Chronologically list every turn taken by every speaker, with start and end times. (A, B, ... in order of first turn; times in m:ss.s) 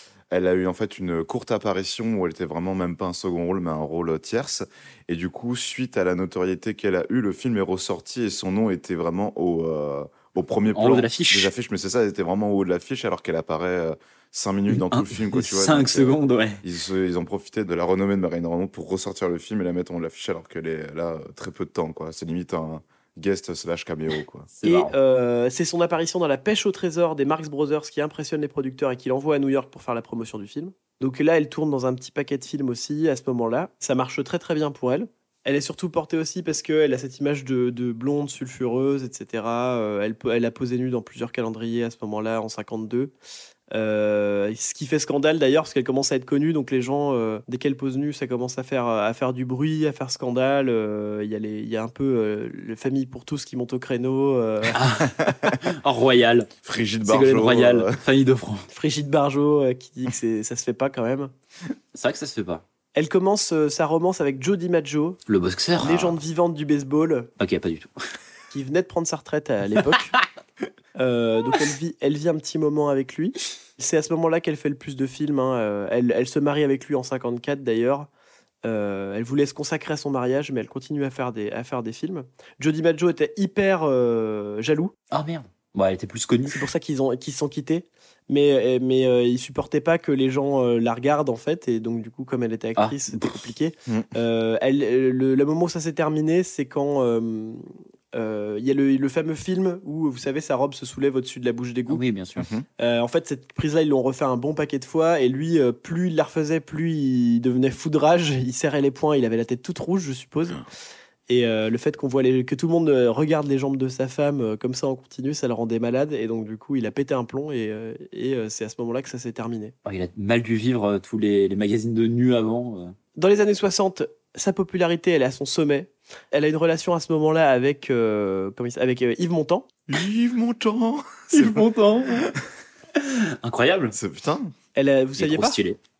0:00.3-0:24.5 A
0:10.7-0:11.5 B
0:14.7-0:16.6 B
0:24.5-0:24.9 B
0:24.6-0:43.1 C
0:43.7-0:54.8 C
0:54.7-0:56.5 B
0:55.2-0:55.6 A
0:56.6-0:58.0 A
0:57.0-0:58.7 B
0:58.7-1:01.3 C
1:01.9-1:02.6 B
1:02.9-1:05.2 C
1:05.3-1:06.2 B
1:05.8-1:07.3 C
1:07.4-1:07.9 B
1:08.5-1:10.1 C
1:11.0-1:18.1 C
1:18.6-1:24.9 C
1:25.1-1:26.7 B
1:26.5-1:42.0 C
1:32.8-1:33.4 B
1:41.9-1:42.5 B
1:42.4-1:42.6 A
1:42.8-1:50.6 C
1:51.3-1:59.7 C
1:59.8-2:02.9 B
2:03.2-2:09.7 C
2:09.9-2:12.3 A
2:11.3-2:12.3 B
2:12.9-2:14.0 B
2:13.9-2:14.5 A
2:14.7-2:15.6 C
2:15.2-2:15.8 B